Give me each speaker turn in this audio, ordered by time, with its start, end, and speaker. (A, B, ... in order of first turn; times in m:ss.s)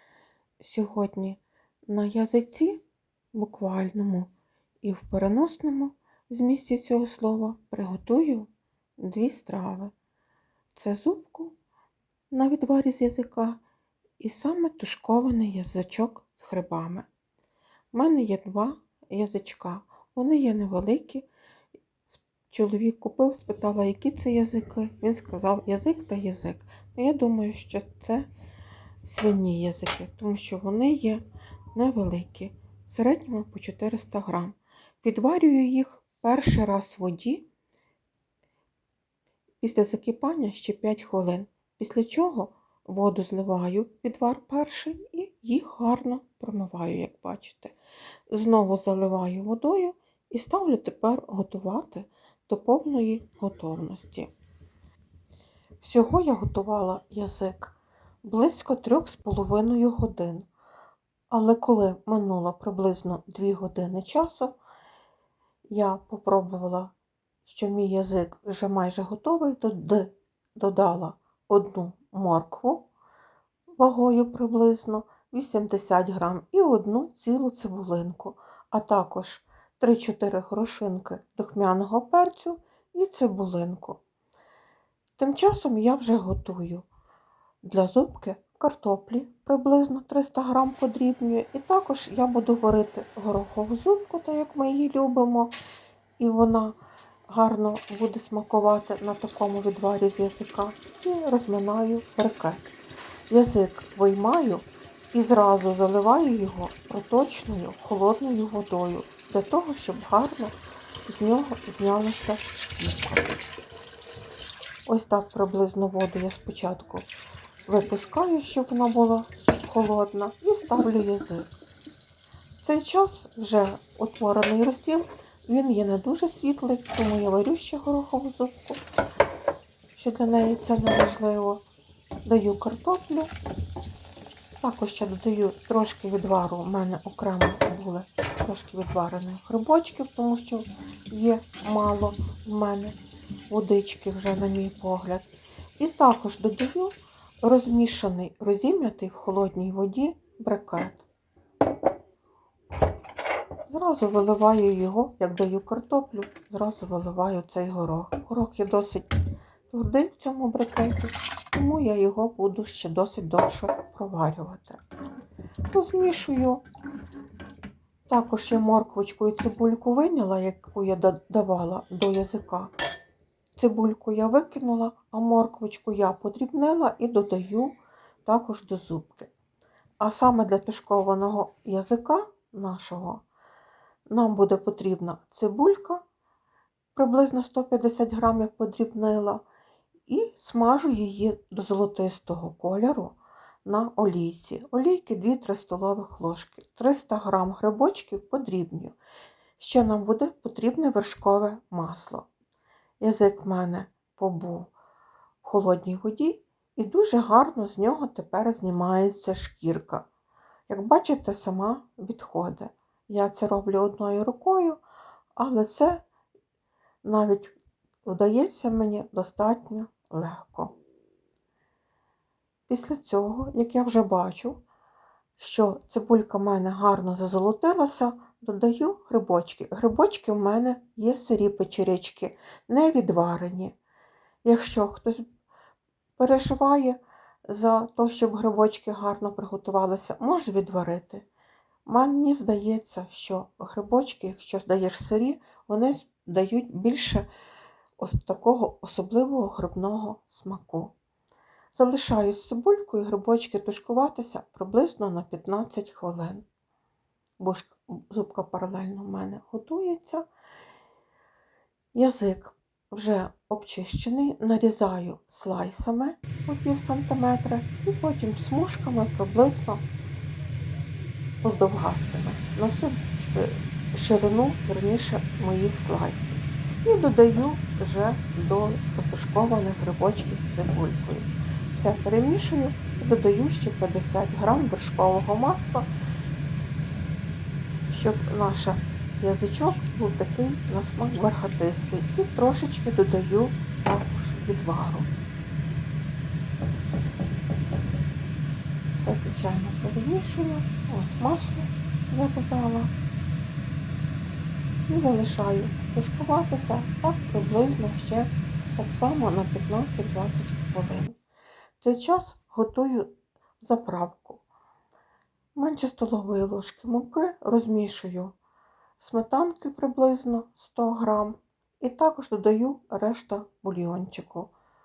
0:00.6-0:02.8 A
0:03.3-0:04.3 A
0:04.8-0:09.9 A
0:10.7-0:11.5 A
0:12.3-0:13.6 A
0:14.2-0:17.1 A
0:17.9-0:21.3 A
0:22.1-0:28.3 A
0:29.0-0:31.2 A
0:31.7-0:37.4 A
0:39.6-0:47.8 A
0:48.3-0:54.3 A
0:55.8-1:00.5 A
1:01.3-1:04.6 A
1:05.7-1:06.9 A
1:07.4-1:12.9 A
1:13.8-1:24.0 A
1:25.2-1:26.9 A
1:27.6-1:35.6 A
1:36.2-1:36.8 A
1:37.3-1:42.7 A
1:43.3-1:50.5 A
1:51.1-1:53.4 A
1:54.9-1:57.1 A
1:57.7-2:01.5 A
2:02.6-2:08.8 A
2:10.0-2:11.6 A
2:12.2-2:13.3 A
2:14.6-2:23.0 A
2:23.5-2:31.0 A
2:33.7-2:39.1 A
2:39.7-2:44.8 A
2:45.7-2:46.6 A
2:48.1-2:52.7 A
2:53.6-2:59.3 A
3:00.0-3:03.2 A
3:04.1-3:06.0 A
3:06.9-3:09.4 A
3:10.1-3:18.9 A
3:19.6-3:22.2 A
3:23.0-3:24.7 A
3:25.4-3:30.0 A
3:30.7-3:34.8 A
3:35.4-3:36.0 A
3:37.0-3:37.5 A
3:38.0-3:40.7 A
3:42.7-3:44.6 A
3:45.4-3:53.7 A
3:54.4-3:55.2 A
3:56.2-4:01.2 A
4:01.9-4:07.2 A
4:08.0-4:10.9 A
4:11.7-4:16.4 A
4:17.4-4:20.2 A
4:21.9-4:29.8 A
4:31.4-4:45.9 A
4:47.9-4:55.1 A
4:58.9-5:02.9 A
5:04.9-5:11.2 A
5:11.8-5:14.4 A
5:15.6-5:18.4 A
5:19.0-5:24.5 A